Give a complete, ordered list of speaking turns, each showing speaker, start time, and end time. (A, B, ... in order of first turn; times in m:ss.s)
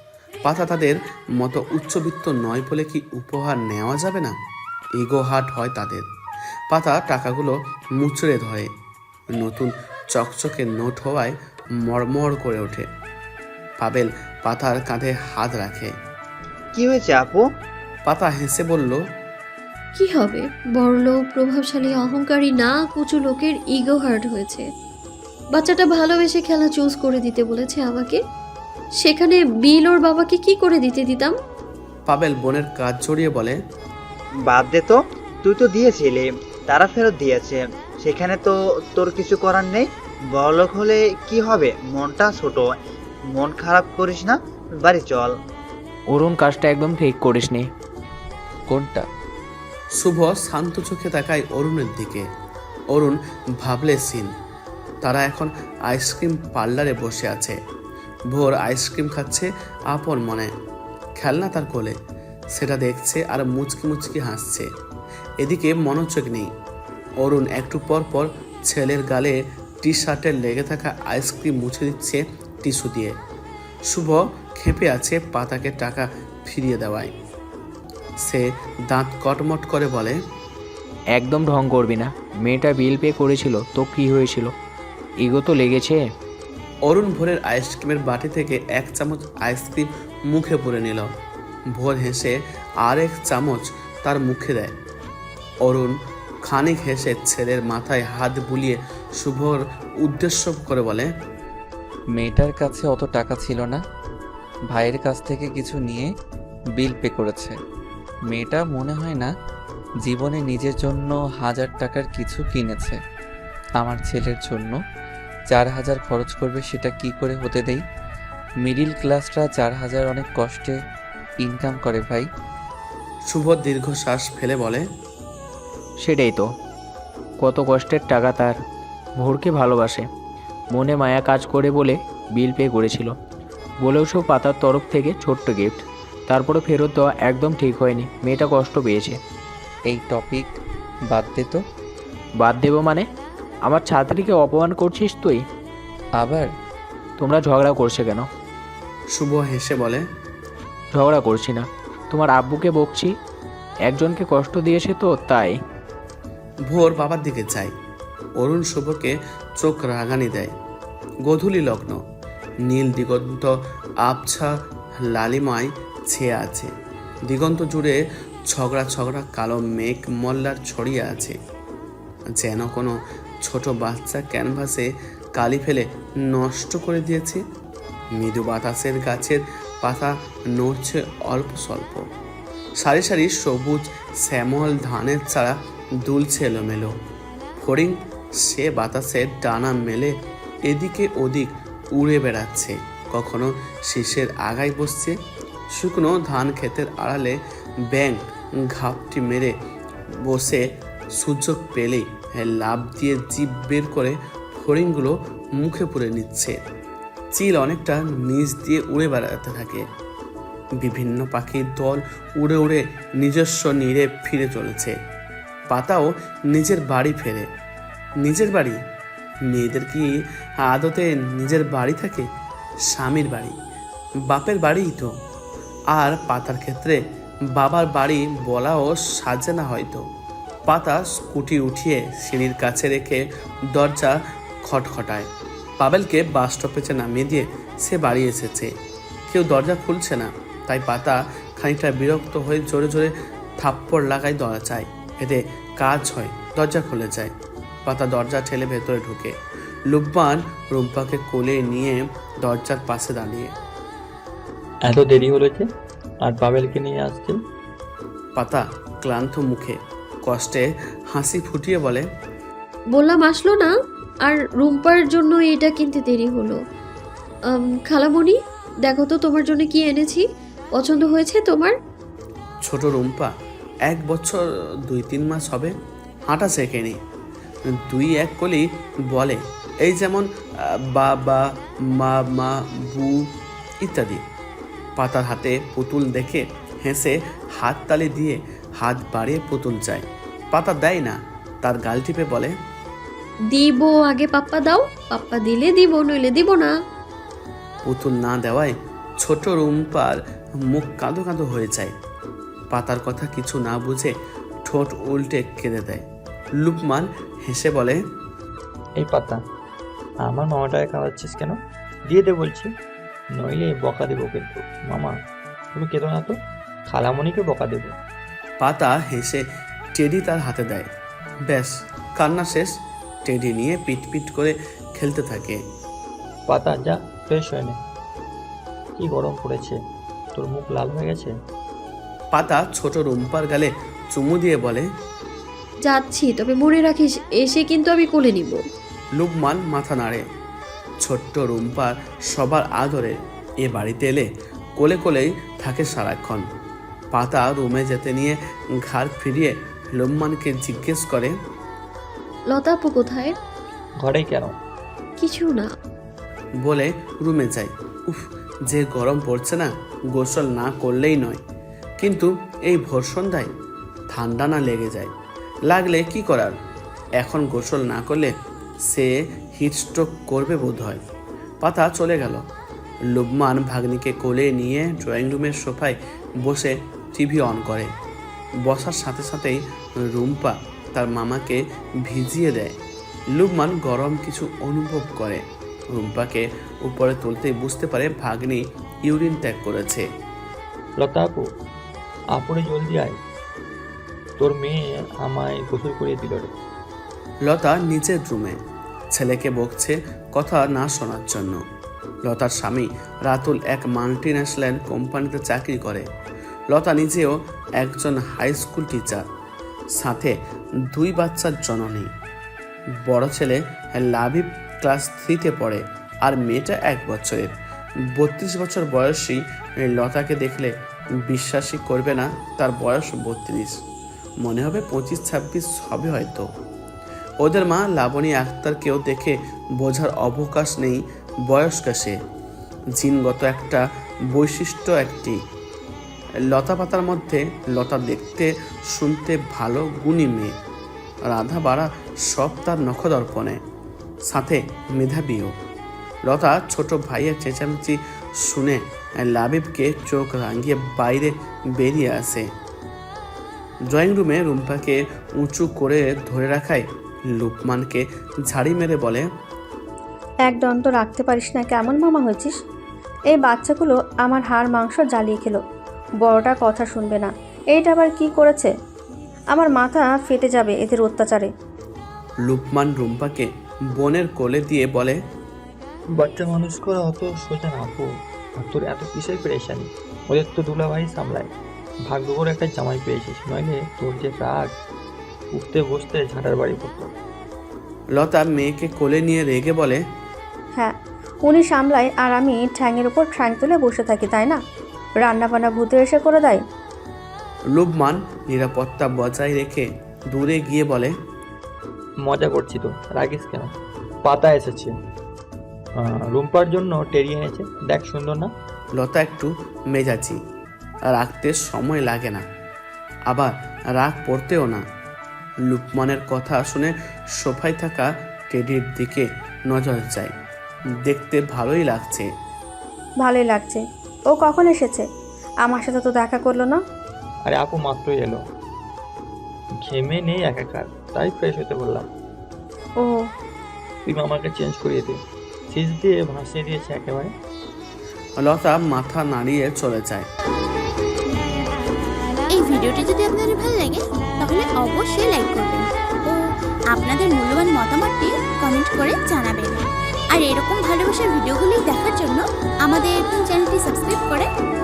0:00.4-0:04.4 A
0:05.0-0:06.1 A
0:06.7-0:08.7 A
0:09.4-0:12.9 A
0:13.8-0:16.0 A
0:16.8-0:17.4 B
0:18.1-0:19.1 A
0:20.0-0:24.7 C
0:25.5-0:28.2 C
0:29.0-0:31.4 C
0:32.1-0:33.6 A
0:34.5-0:42.7 B
0:43.3-0:45.3 B
0:46.1-0:47.7 D
0:48.7-0:49.1 E
0:49.9-0:52.3 A
0:52.9-0:54.3 A
0:55.0-0:57.6 A
0:58.3-1:00.5 A
1:01.2-1:02.0 A
1:02.5-1:04.7 A
1:05.4-1:06.5 A
1:07.2-1:13.2 A
1:13.9-1:17.1 A
1:18.2-1:20.2 A
1:21.1-1:24.5 D
1:25.2-1:26.0 D
1:26.8-1:31.1 A
1:31.7-1:34.8 A
1:35.6-1:41.1 A
1:42.1-1:43.8 E
1:44.7-1:46.1 E
1:46.8-1:47.6 E
1:48.3-1:49.3 E
1:50.0-1:53.0 E
1:53.8-1:54.8 E
1:55.5-1:57.8 E
1:58.6-2:00.8 E
2:01.4-2:02.3 E
2:03.3-2:04.9 A
2:06.0-2:06.5 D
2:07.4-2:08.6 D
2:09.2-2:10.1 D
2:10.7-2:13.2 D
2:13.8-2:19.2 D
2:19.9-2:20.5 E
2:21.1-2:21.6 E
2:22.4-2:23.1 D
2:23.6-2:25.4 D
2:26.2-2:26.5 E
2:27.2-2:28.3 D
2:29.1-2:30.0 A
2:30.9-2:33.1 D
2:33.9-2:35.6 D
2:36.7-2:37.7 A
2:38.4-2:40.5 A
2:41.2-2:42.0 A
2:42.6-2:46.7 A
2:47.2-2:51.4 A
2:52.3-2:57.4 A
2:58.1-3:02.1 A
3:02.8-3:06.9 A
3:07.6-3:15.2 A
3:15.7-3:19.5 A
3:20.2-3:26.6 A
3:27.3-3:29.9 A
3:30.8-3:35.0 A
3:35.7-3:37.5 A
3:38.2-3:38.8 A
3:39.5-3:42.3 A
3:42.8-3:43.5 A
3:44.3-3:45.1 A
3:45.9-3:50.1 A
3:50.7-3:58.7 A
3:59.3-4:07.3 A
4:07.8-4:09.4 A
4:09.9-4:13.5 A
4:14.8-4:15.7 F
4:16.2-4:17.4 F
4:18.4-4:22.1 A
4:22.9-4:26.6 C
4:27.5-4:31.8 C
4:32.6-4:33.3 A
4:33.8-4:35.8 A
4:36.3-4:37.0 A
4:37.7-4:44.2 A
4:45.0-4:52.5 A
4:53.5-4:56.7 C
4:57.8-5:01.9 A
5:02.7-5:04.1 A
5:04.6-5:06.0 A
5:06.6-5:08.0 A
5:09.0-5:09.4 F
5:10.2-5:12.7 F
5:13.4-5:15.2 F
5:15.7-5:16.4 F
5:16.9-5:17.9 F
5:18.6-5:20.9 A
5:21.5-5:25.6 A
5:26.5-5:27.8 F
5:29.0-5:29.8 F
5:30.3-5:31.3 F
5:32.3-5:34.9 A
5:35.8-5:38.6 C
5:39.2-5:40.2 A
5:41.0-5:46.5 A
5:47.1-5:51.3 A
5:52.5-5:53.3 C
5:54.0-5:54.5 F
5:55.2-5:55.7 C
5:56.6-6:01.4 A
6:02.0-6:03.5 A
6:04.1-6:05.1 A
6:05.7-6:06.5 A
6:07.2-6:08.3 A
6:08.8-6:11.0 A
6:11.6-6:12.5 A
6:13.1-6:17.9 A
6:18.6-6:22.8 A
6:23.3-6:30.1 A
6:31.0-6:31.4 F
6:32.3-6:33.2 F
6:34.4-6:36.5 F
6:37.4-6:38.6 A
6:39.1-6:41.6 A
6:42.2-6:46.1 A
6:46.7-6:49.3 A
6:50.0-6:50.4 A
6:50.9-6:52.1 A
6:53.0-7:03.8 A
7:04.4-7:06.5 A
7:07.4-7:12.2 A
7:13.0-7:15.4 A
7:16.5-7:20.6 A
7:21.2-7:23.6 A
7:24.3-7:25.6 A
7:26.2-7:32.5 A
7:33.9-7:39.3 A
7:40.5-7:42.6 G
7:43.3-7:45.6 G
7:46.2-7:48.7 G
7:49.5-7:51.5 G
7:52.4-7:55.2 A
7:56.2-8:01.5 F
8:02.1-8:04.7 F
8:05.5-8:07.1 F
8:08.1-8:10.0 A
8:10.8-8:14.6 G
8:15.2-8:16.6 G
8:17.7-8:21.2 A
8:22.2-8:23.7 F
8:24.2-8:24.9 F
8:26.0-8:28.5 F
8:29.0-8:30.4 A
8:31.1-8:32.5 A
8:33.3-8:34.8 A
8:35.6-8:40.3 A
8:41.0-8:42.3 A
8:43.2-8:45.1 G
8:45.6-8:46.8 G
8:47.5-8:48.4 F
8:49.8-8:52.0 F
8:53.0-8:53.3 G
8:54.1-8:55.2 F
8:55.7-8:57.3 F
8:58.4-9:00.3 A
9:02.5-9:14.5 H